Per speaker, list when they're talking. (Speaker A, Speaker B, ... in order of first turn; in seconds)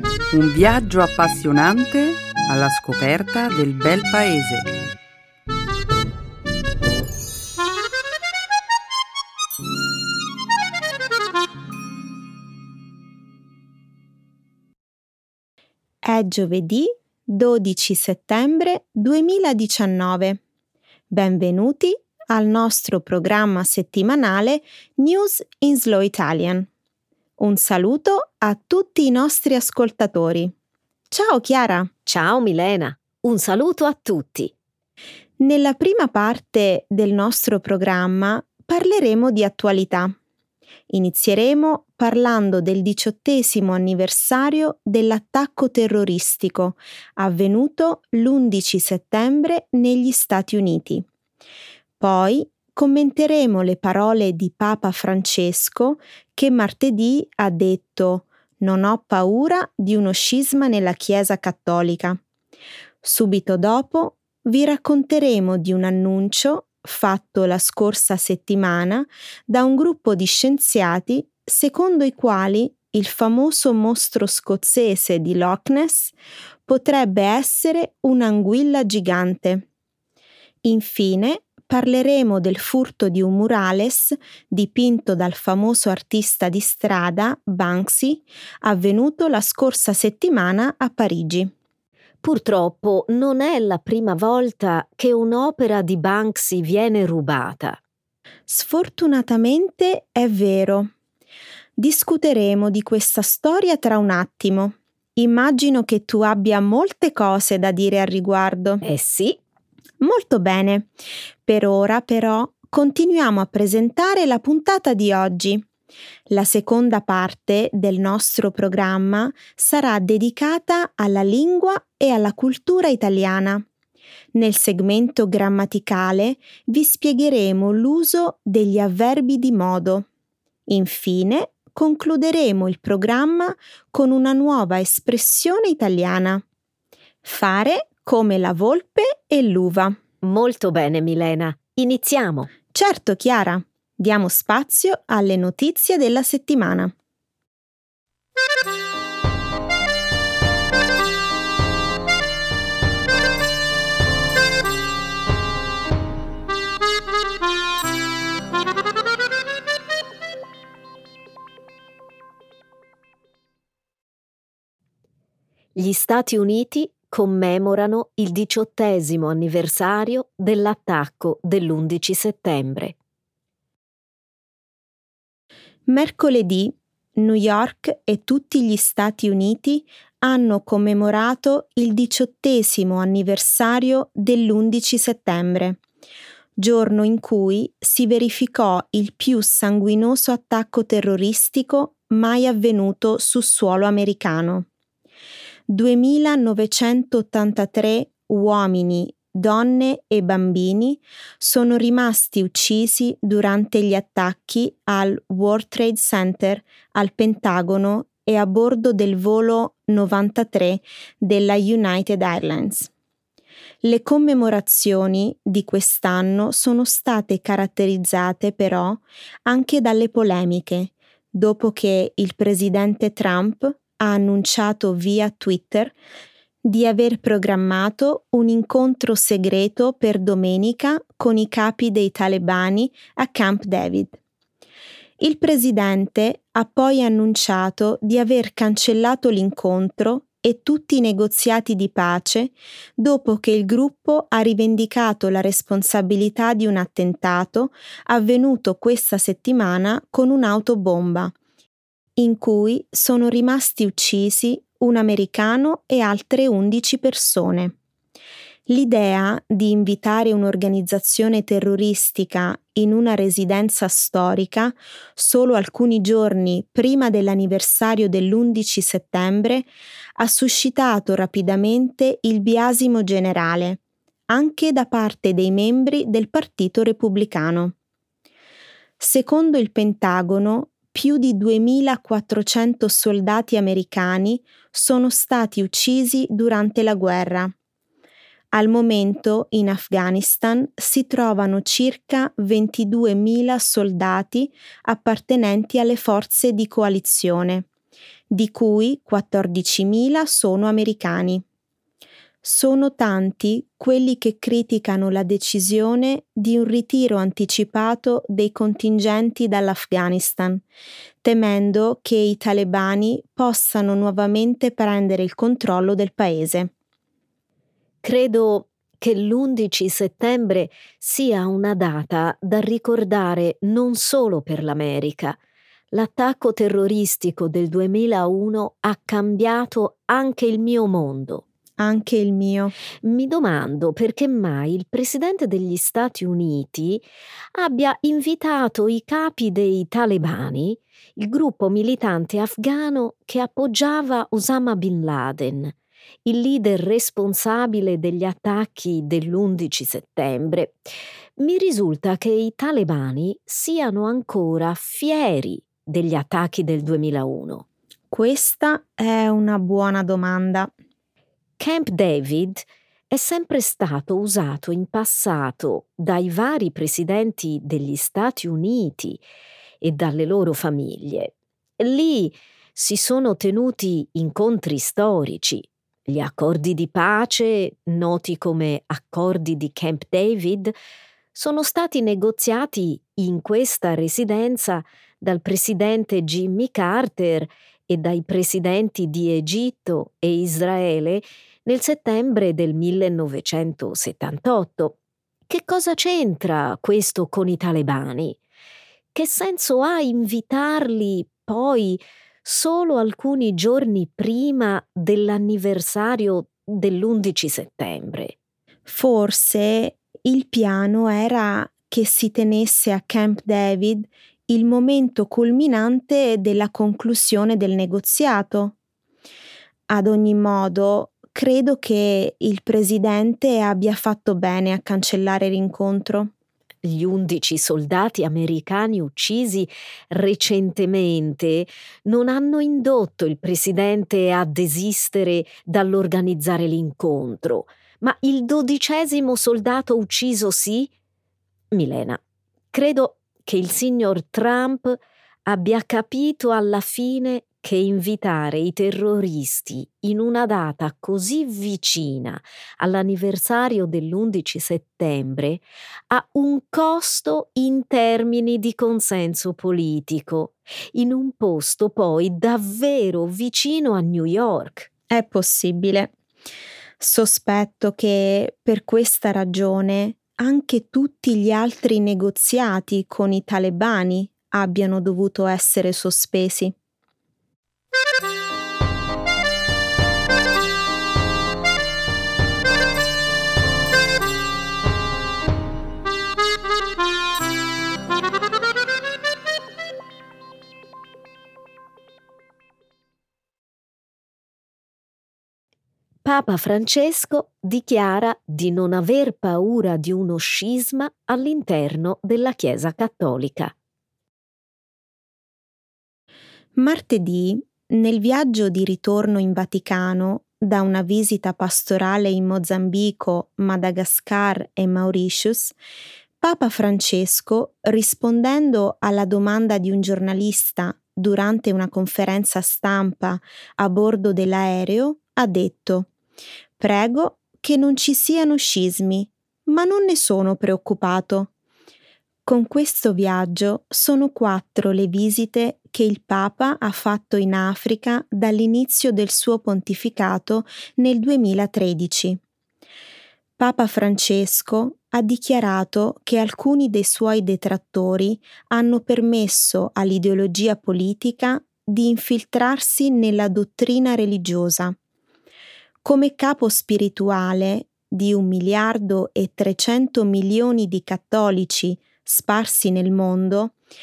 Speaker A: 0.3-4.7
Speaker B: 16.0-20.4, 21.1-26.7, 27.4-30.5, 31.1-31.9, 35.4-40.1, 40.9-51.0, 52.0-62.2, 63.0-76.1, 76.7-79.7, 80.6-91.5, 98.5-100.9, 101.8-108.8, 110.0-110.9, 111.5-115.7, 116.3-123.7, 124.3-130.1, 130.7-136.4, 137.2-140.0, 142.7-146.9, 175.9-185.8, 186.6-194.7, 195.7-212.9, 213.8-225.9, 226.7-234.2, 235.2-251.3, 252.2-257.8, 258.7-277.8, 279.0-287.5, 288.5-297.7, 298.3-301.4, 302.4-310.6, 311.2-316.7, 331.8-332.8, 358.1-360.7, 408.9-418.8, 419.9-426.3, 465.1-466.1, 467.0-476.7, 506.8-515.8, 516.4-526.1, 526.8-531.5, 532.5-542.4, 543.6-555.0, 556.0-563.8
Speaker C: 32.1-34.5, 92.2-97.8, 108.8-109.4, 140.2-142.5, 165.8-172.9, 318.0-325.4, 325.9-331.4, 333.0-337.0, 337.6-345.7, 346.2-350.7, 351.4-357.6, 361.6-369.2, 369.8-380.7, 381.4-395.0, 395.5-398.4, 399.1-408.4, 426.8-440.9, 441.7-442.2, 442.7-464.9, 496.2-503.7